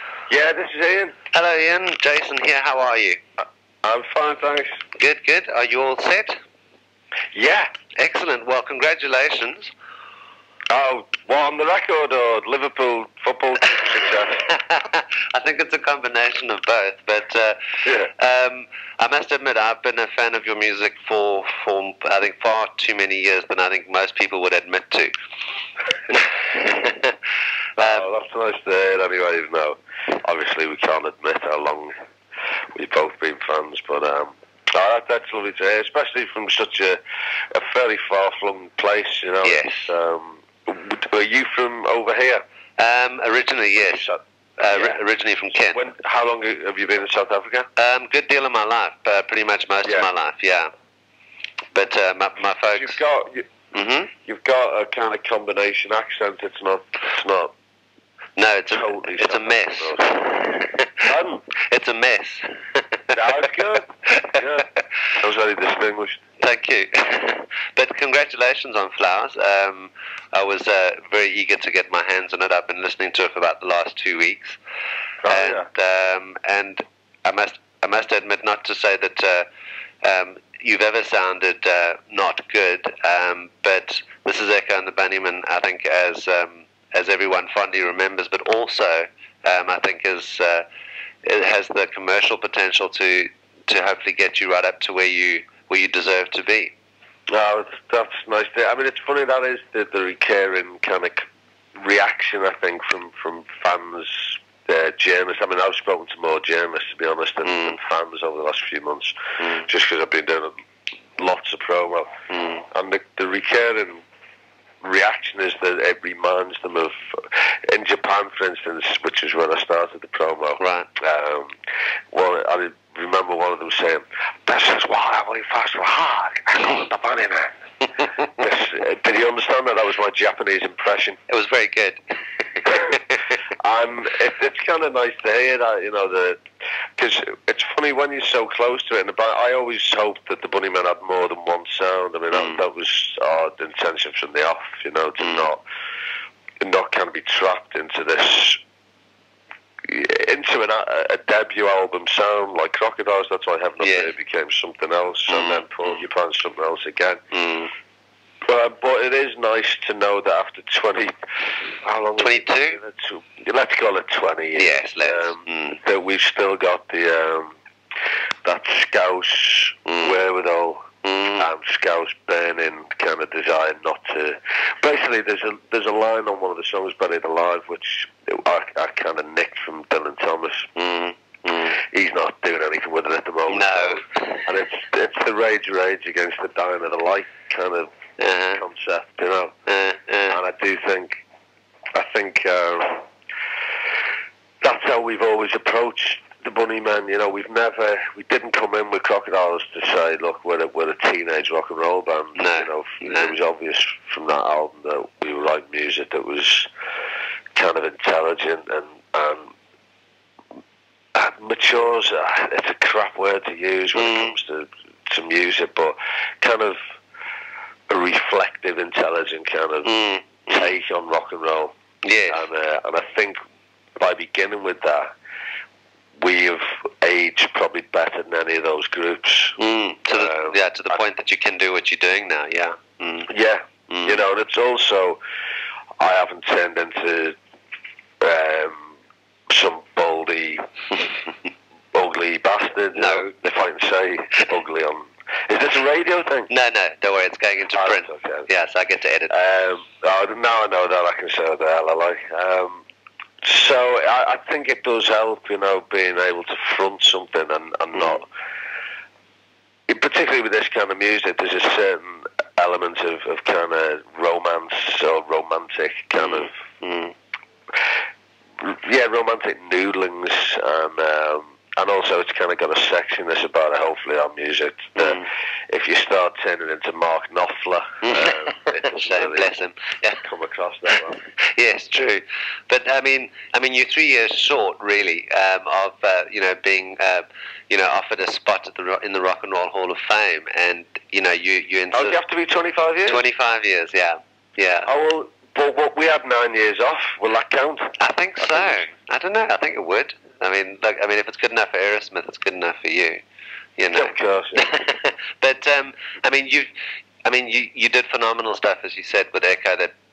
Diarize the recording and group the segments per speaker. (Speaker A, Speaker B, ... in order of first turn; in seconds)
Speaker A: 0.3-1.1, 3.8-4.7, 7.3-7.7, 10.7-14.4, 17.8-18.1, 27.8-31.9, 32.7-37.0, 37.5-42.4, 43.8-45.0, 45.7-47.7, 52.6-53.5, 54.2-57.5, 58.7-60.2, 61.0-61.4, 63.1-66.2, 75.2-75.7, 97.3-101.2, 101.8-110.5, 111.2-112.1, 112.7-114.0, 114.8-121.5, 122.1-127.6, 128.2-131.2, 132.7-132.9, 133.6-136.4, 136.9-145.6, 146.6-148.6, 149.8-157.2, 158.5-161.1, 161.8-167.5, 168.4-170.8, 171.4-180.7, 181.8-187.9, 188.5-189.5, 190.3-191.2, 191.9-193.1, 194.6-206.7, 207.5-209.5, 211.1-216.8, 217.9-219.9, 220.5-221.7, 222.3-223.4, 224.0-225.1, 226.2-230.5, 233.3-235.2, 236.0-237.3, 238.2-238.9, 239.5-240.7, 241.9-246.5, 247.7-248.5, 249.3-252.8, 253.4-258.3, 259.9-266.5, 268.6-279.5, 280.2-281.2, 291.9-293.2, 294.9-298.8, 303.9-304.7
Speaker B: 1.3-3.2, 5.0-6.4, 8.0-9.7, 14.5-25.1, 26.1-27.1, 27.8-28.0, 39.4-39.9, 42.8-45.8, 47.8-50.7, 51.7-53.0, 53.7-54.1, 58.4-61.1, 61.6-63.2, 64.1-64.3, 66.4-74.6, 75.3-79.5, 80.0-90.6, 91.2-96.7, 107.4-107.8, 112.3-112.6, 120.6-120.9, 131.3-133.2, 142.3-142.6, 145.2-145.5, 153.8-154.1, 155.3-156.0, 157.3-157.7, 162.2-162.8, 164.5-165.8, 169.8-170.2, 171.0-171.5, 180.7-181.8, 183.5-184.5, 188.2-188.6, 189.7-190.4, 202.3-203.3, 213.9-214.3, 219.8-220.7, 222.0-222.4, 229.6-233.3, 233.9-234.2, 242.9-243.3, 246.5-249.3, 266.2-267.1, 274.9-275.2, 278.0-280.2, 281.4-292.2, 293.1-294.9, 298.0-303.2, 303.8-306.7, 307.2-309.9